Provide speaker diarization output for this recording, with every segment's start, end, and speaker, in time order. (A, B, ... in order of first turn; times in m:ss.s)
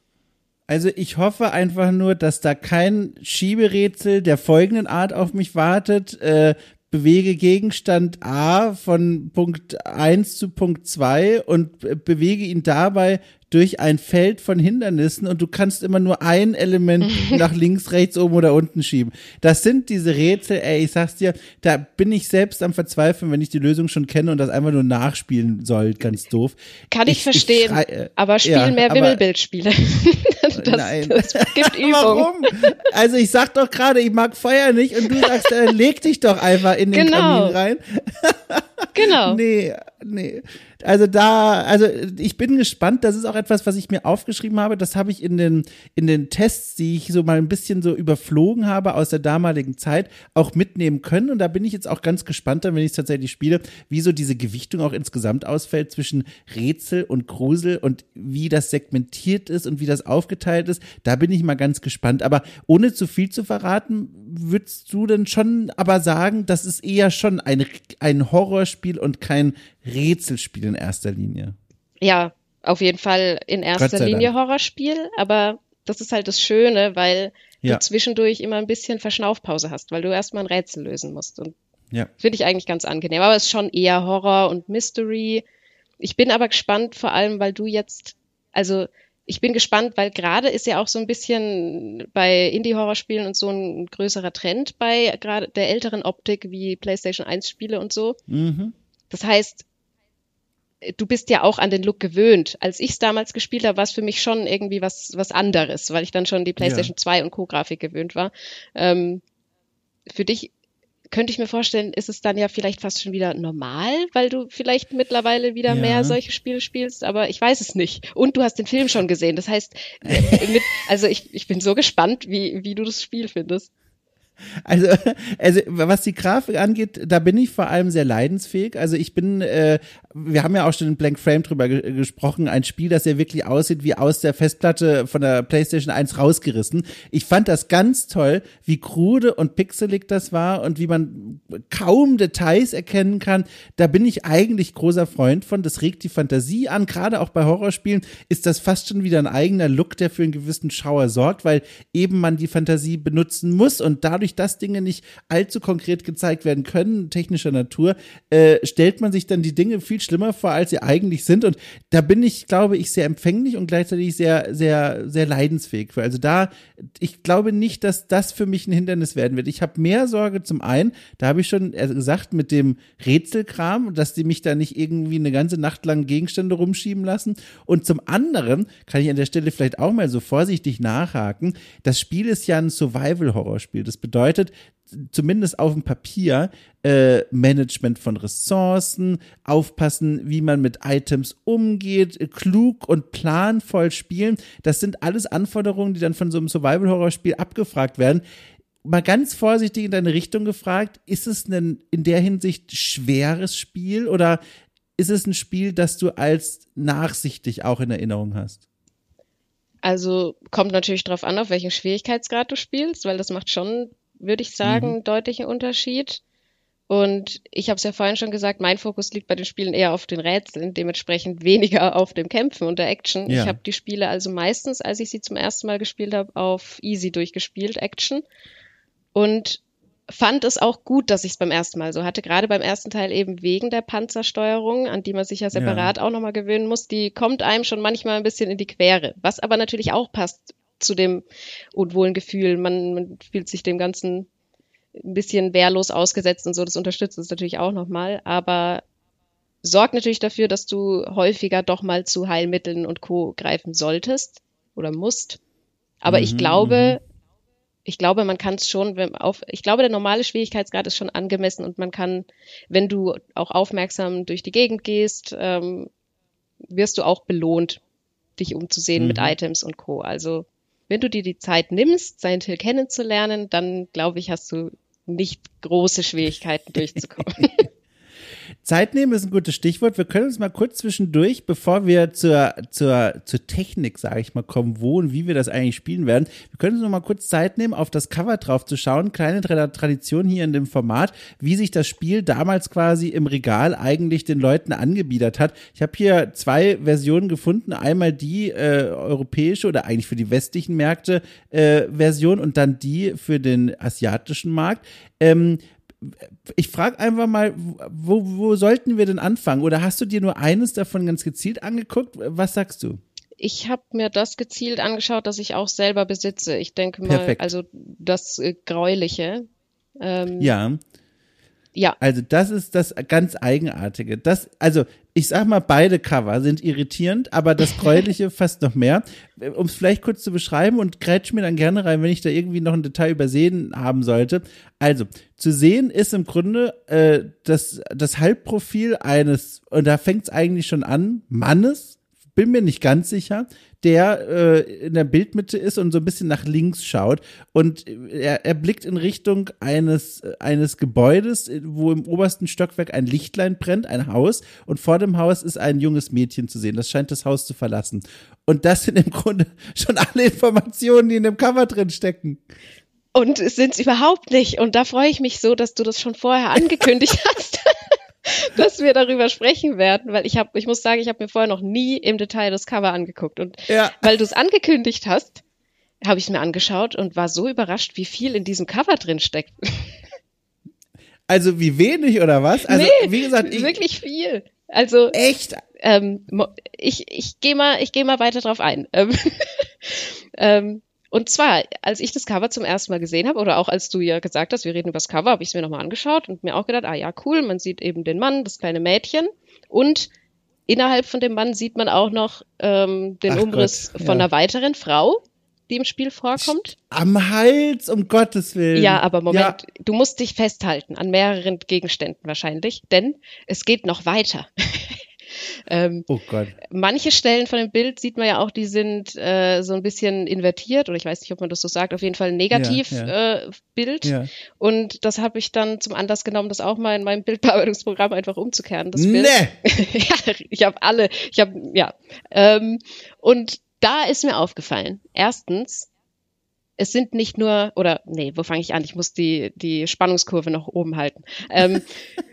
0:00.7-0:29.2 A
0:17.0-0:17.4 B
0:26.9-0:32.7 B
0:30.5-1:11.5 A
0:36.9-0:37.6 B
0:38.9-0:39.4 B
1:12.0-1:21.5 B
1:13.8-1:14.3 A
1:22.2-1:25.4 B
1:26.0-1:38.2 B
1:38.3-1:38.7 A
1:39.1-1:39.6 B
1:40.8-1:49.2 B
1:46.6-1:46.9 A
1:50.1-1:50.5 B
1:51.1-2:03.7 B
1:55.7-1:56.2 A
2:00.1-2:00.4 A
2:04.6-3:18.2 A
3:18.8-3:24.4 A
3:25.0-3:28.6 A
3:29.8-3:36.2 B
3:34.6-3:35.0 A
3:36.9-3:48.2 B
3:43.3-3:43.6 A
3:49.1-4:04.3 B
3:55.5-3:55.9 A
4:04.9-4:08.8 B
4:09.6-4:15.4 B
4:16.0-4:17.0 B
4:16.1-4:17.0 A
4:17.8-4:25.9 B
4:26.6-4:27.8 B
4:28.4-4:37.6 B
4:29.0-4:29.3 A
4:38.6-5:13.0 A
5:13.4-5:19.5 B
5:17.1-5:17.5 A
5:20.0-5:20.5 B
5:20.4-5:20.8 A
5:22.0-6:02.4 A
6:03.1-6:15.4 B
6:13.7-6:14.1 A
6:16.0-6:20.0 B
6:21.3-6:23.8 A
6:22.6-6:25.2 B
6:25.1-6:25.6 A
6:25.8-6:40.1 B
6:40.7-6:46.7 B
6:43.3-6:44.2 A
6:46.4-6:49.6 A
6:48.7-6:56.1 B
6:56.1-6:56.6 A
6:56.6-7:15.9 B
7:02.5-7:03.1 A
7:04.0-7:04.3 A
7:08.9-7:09.5 A
7:16.8-7:21.9 B